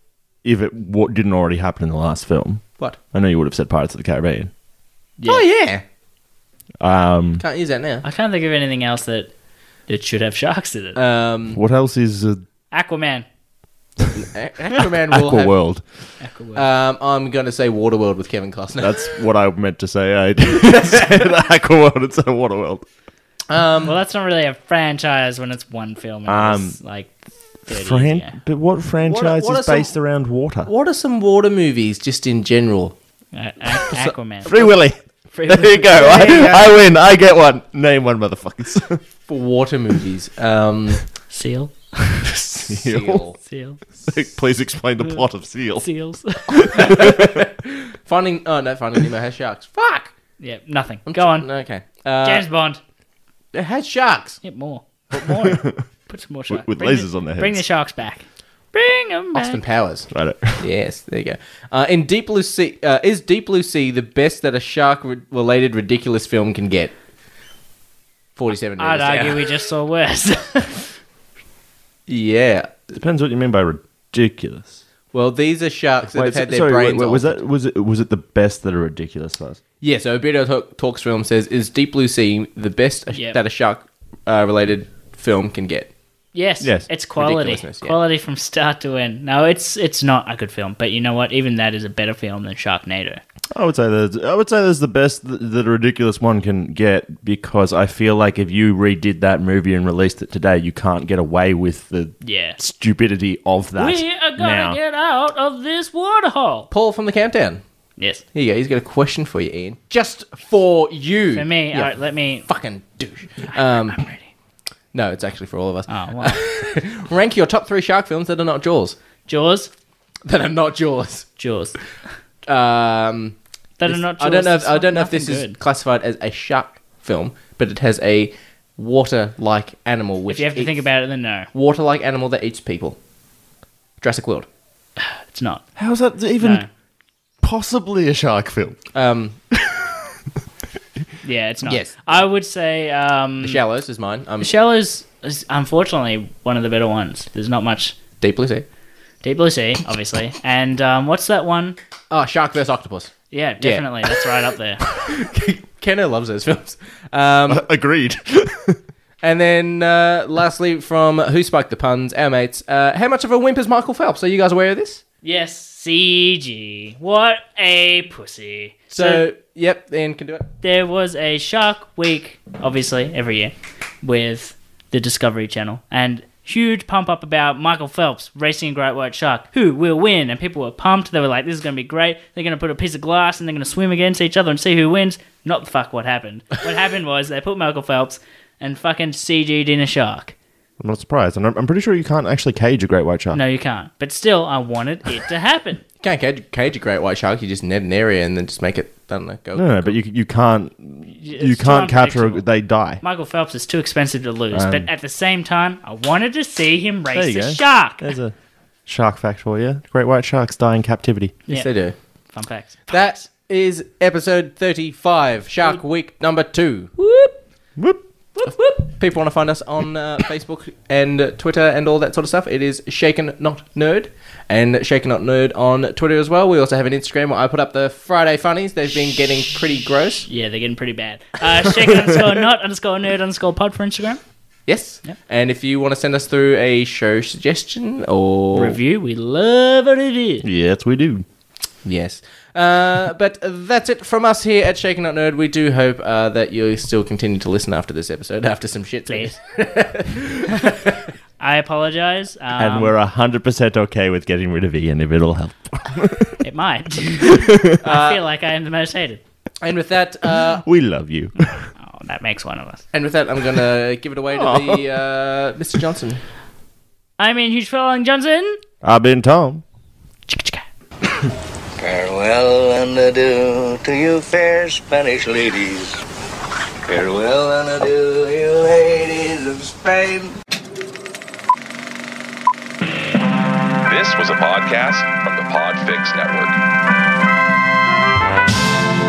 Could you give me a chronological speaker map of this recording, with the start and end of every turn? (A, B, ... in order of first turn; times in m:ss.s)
0:00.4-0:04.5 A
0:05.2-0:05.8 B
0:06.8-0:07.4 A
0:07.4-0:08.0 B
0:08.0-0:09.3 C
0:09.9-0:11.0 C
0:11.0-0:11.6 B
0:11.5-0:12.4 A
0:12.7-0:13.2 C
0:14.1-0:15.5 B
0:15.1-0:15.8 A
0:16.2-0:16.6 C
0:16.6-0:19.1 B
0:18.8-0:22.8 A
0:20.7-0:21.1 B
0:23.5-0:24.0 B
0:23.8-0:28.4 C
0:26.3-0:26.8 A
0:27.7-0:30.7 A
0:29.0-0:30.0 B
0:30.6-0:33.0 B
0:33.3-0:36.4 C
0:34.4-0:39.0 A
0:35.9-0:36.8 B
0:39.3-0:41.0 B
0:41.3-0:42.6 C
0:42.7-0:43.2 A
0:42.7-0:43.4 B
0:43.4-0:43.8 C
0:44.1-0:45.9 A
0:45.8-0:47.1 C
0:46.5-0:47.4 A
0:46.8-0:50.1 B
0:50.4-0:51.5 C
0:51.0-0:52.5 B
0:52.2-0:52.8 C
0:53.5-0:54.4 B
0:54.4-0:59.6 C
0:55.2-0:55.8 A
0:56.5-0:57.6 A
0:59.3-1:06.9 B
1:00.1-1:00.6 A
1:08.4-1:09.5 B
1:08.8-1:10.9 C
1:12.1-1:12.9 B
1:12.9-1:14.8 A
1:15.1-1:17.4 B
1:16.1-1:19.6 A
1:19.8-1:25.9 B
1:23.1-1:23.4 C
1:26.3-1:33.2 C
1:26.6-1:26.9 A
1:27.2-1:28.0 B
1:33.5-1:44.8 A
1:42.2-1:42.6 C
1:43.8-1:46.7 C
1:46.7-1:47.6 B
1:48.0-1:48.2 C
1:48.3-1:51.9 B
1:51.3-1:52.5 C
1:52.4-1:54.0 B
1:53.5-1:54.3 C
1:54.9-1:59.0 B
1:55.9-1:56.4 C
1:59.3-1:59.7 C
2:00.2-2:01.3 B
2:01.4-2:01.8 C
2:02.5-2:10.8 B
2:03.8-2:05.6 C
2:10.3-2:11.5 C
2:11.5-2:13.0 B
2:14.0-2:14.5 B
2:15.0-2:15.6 C
2:15.8-2:16.6 A
2:16.4-2:16.7 C
2:17.4-2:18.8 A
2:18.9-2:19.4 B
2:19.5-2:19.9 A
2:21.2-2:23.6 C
2:21.6-2:22.0 B
2:23.4-2:24.5 B
2:24.4-2:27.9 C
2:28.2-2:28.6 B
2:29.2-2:31.8 C
2:32.1-2:34.2 B
2:33.3-2:34.8 C
2:34.9-2:37.7 B
2:37.5-2:38.8 A
2:39.2-2:45.0 B
2:45.2-2:49.2 C
2:48.9-2:50.5 B
2:50.6-3:10.3 C
3:10.8-3:13.4 A
3:13.3-3:15.8 C
3:16.0-3:19.9 B
3:19.5-3:23.0 A
3:21.2-3:22.5 C
3:23.0-3:28.1 C
3:24.5-3:24.9 A
3:27.1-3:28.3 A
3:28.9-3:31.4 A
3:31.5-3:32.0 B
3:32.3-3:33.2 C
3:32.9-3:36.9 B
3:37.0-3:37.4 C
3:38.4-3:38.8 C
3:38.4-3:50.3 B
3:50.3-3:54.2 C
3:54.7-3:58.8 B
3:58.5-4:00.4 C
4:00.4-4:01.2 A
4:01.8-4:11.1 B
4:09.1-4:09.4 C
4:11.4-4:13.0 C
4:12.6-4:16.4 A
4:16.4-4:19.2 C
4:17.2-4:17.8 A
4:17.8-4:18.2 B
4:19.6-4:20.6 B
4:20.6-4:21.6 A
4:21.8-4:22.8 C
4:22.9-4:26.2 B
4:27.2-4:28.6 C
4:28.8-4:29.6 A
4:30.3-4:30.6 C
4:31.8-4:36.0 D
4:36.9-4:40.3 D
4:43.8-4:46.6 E